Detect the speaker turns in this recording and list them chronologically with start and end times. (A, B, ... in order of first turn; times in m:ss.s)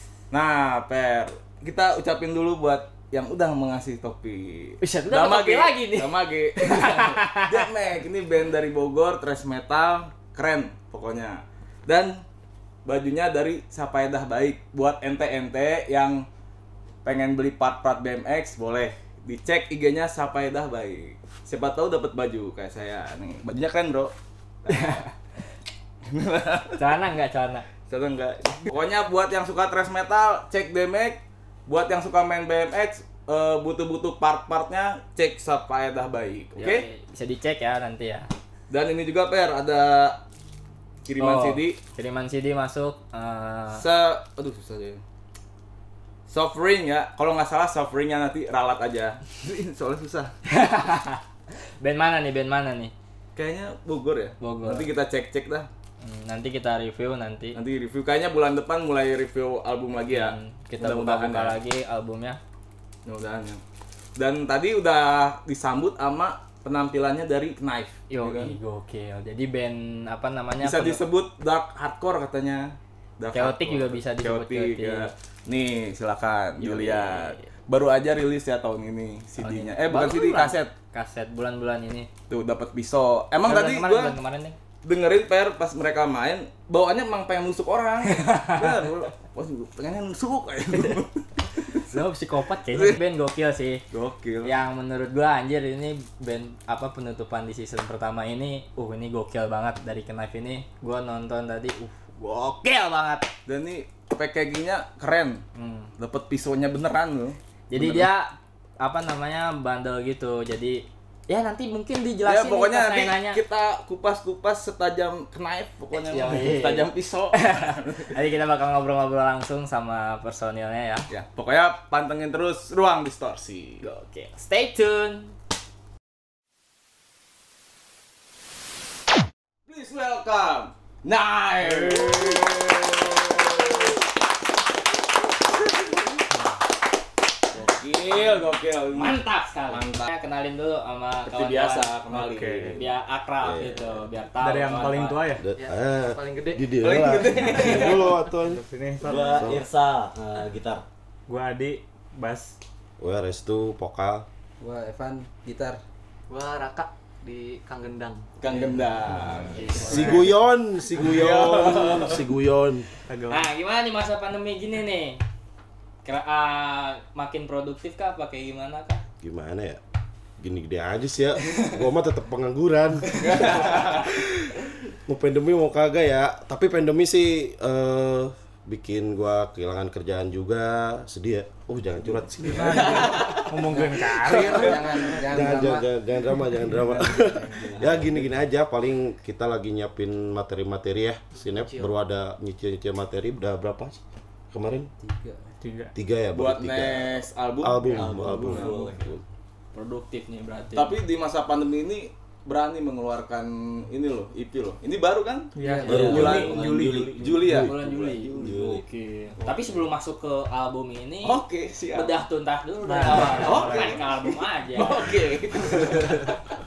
0:00.3-0:12.2 A
0:04.8-0:07.7 B
0:12.9-0:16.3 A
0:17.0-0:24.1 A
0:24.6-0:25.1 A
0:24.7-0:25.0 B
0:26.1-0:26.8 A
0:26.8-0:27.7 B
0:27.9-0:36.9 A
0:36.6-0:38.3 B
0:38.7-0:40.2 A
0:41.1-0:41.8 A
0:41.2-0:43.8 B
0:43.7-0:45.0 A
0:46.3-0:50.3 A
0:50.5-0:51.2 B
0:51.8-0:52.9 B
0:53.4-0:55.7 A
0:54.4-0:54.9 B
0:56.0-0:57.6 B
0:57.6-1:01.6 A
1:00.1-1:02.4 B
1:03.1-1:03.6 A
1:04.2-1:08.6 A
1:08.1-1:11.0 B
1:10.6-1:20.7 A
1:13.3-1:15.1 B
1:16.6-1:17.5 B
1:19.4-1:22.1 B
1:22.3-1:24.2 A
1:23.4-1:24.6 B
1:24.8-1:31.2 A
1:28.1-1:28.9 B
1:31.9-1:33.8 B
1:33.9-1:34.5 A
1:34.4-1:43.3 B
1:43.5-1:45.4 A
1:45.6-1:45.9 B
1:46.0-1:48.1 A
1:47.7-1:53.4 B
1:52.2-1:58.1 A
1:56.0-2:01.1 B
2:01.1-2:03.8 A
2:03.8-2:05.4 B
2:09.7-2:14.0 A
2:11.6-2:12.6 B
2:17.5-2:20.1 A
2:18.9-2:21.9 B
2:21.2-2:22.8 A
2:22.1-2:22.8 C
2:22.7-2:25.3 B
2:23.4-2:24.1 D
2:24.4-2:25.5 C
2:25.4-2:28.6 D
2:25.5-2:27.2 E
2:26.8-2:28.1 A
2:28.4-2:29.6 C
2:29.0-2:30.8 F
2:29.4-2:29.6 D
2:31.3-2:32.6 C
2:33.0-2:34.3 D
2:34.6-2:35.8 G
2:36.3-2:38.9 E
2:38.4-2:40.2 A
2:39.1-2:39.5 F
2:39.5-2:40.3 E
2:39.5-2:40.3 B
2:39.8-2:40.3 C
2:39.8-2:42.9 D
2:41.0-2:42.3 A
2:43.1-2:43.5 C
2:43.3-2:45.2 B
2:46.0-2:49.1 B
2:49.2-2:49.8 D
2:50.4-2:54.5 D
2:53.2-2:54.1 A
2:55.1-3:03.2 D
3:02.4-3:04.9 C
3:02.7-3:03.2 A
3:03.6-3:05.9 G
3:05.3-3:14.0 D
3:07.5-3:08.3 F
3:11.4-3:12.0 E
3:14.5-3:14.9 D
3:15.0-3:15.6 G
3:15.6-3:15.9 C
3:16.0-3:19.2 D
3:16.3-3:18.8 A
3:18.0-3:19.1 F
3:19.7-3:21.0 B
3:20.8-3:28.8 A
3:25.6-3:27.4 C
3:25.6-3:26.2 G
3:25.8-3:26.4 B
3:25.9-3:27.7 F
3:27.5-3:31.4 B
3:28.4-3:28.9 F
3:31.2-3:32.1 A
3:31.9-3:35.0 B
3:32.8-3:34.1 C
3:33.1-3:34.0 A
3:34.8-3:36.4 A